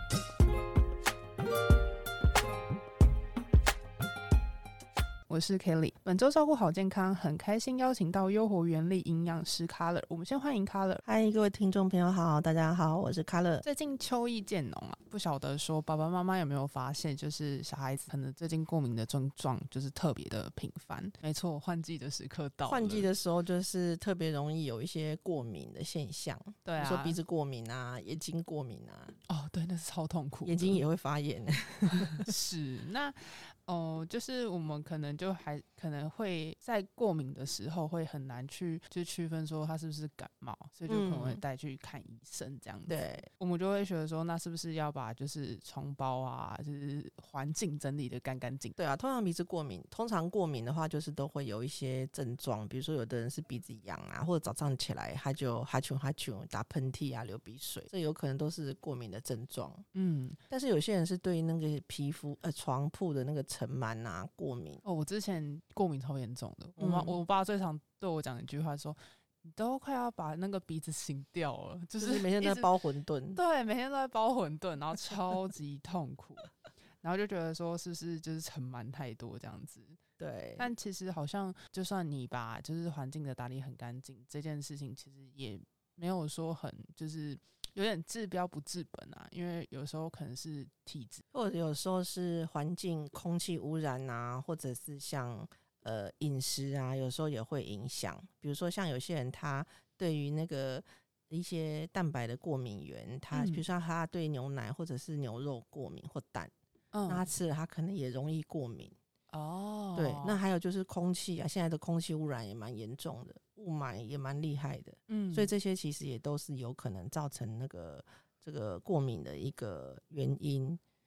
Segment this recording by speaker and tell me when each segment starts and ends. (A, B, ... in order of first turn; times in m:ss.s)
0:05.3-0:11.0 A
0:11.0-0:13.6 B
0:13.6-0:23.1 A
0:22.7-0:29.2 B
0:26.6-0:27.2 A
0:29.3-0:30.8 A
0:30.4-0:32.3 B
0:32.0-0:48.8 A
0:40.9-0:41.4 B
0:42.9-0:43.3 B
0:48.8-0:59.9 B
0:59.9-1:00.4 A
1:00.5-1:04.8 B
1:04.8-1:12.7 A
1:06.8-1:07.2 B
1:12.0-1:13.4 B
1:13.3-1:20.0 A
1:20.2-1:20.7 B
1:20.6-1:31.2 A
1:31.3-1:46.5 B
1:43.3-1:43.6 A
1:46.9-1:47.3 A
1:47.1-1:49.0 B
1:49.3-1:50.4 A
1:50.0-2:00.8 B
1:55.1-1:55.5 A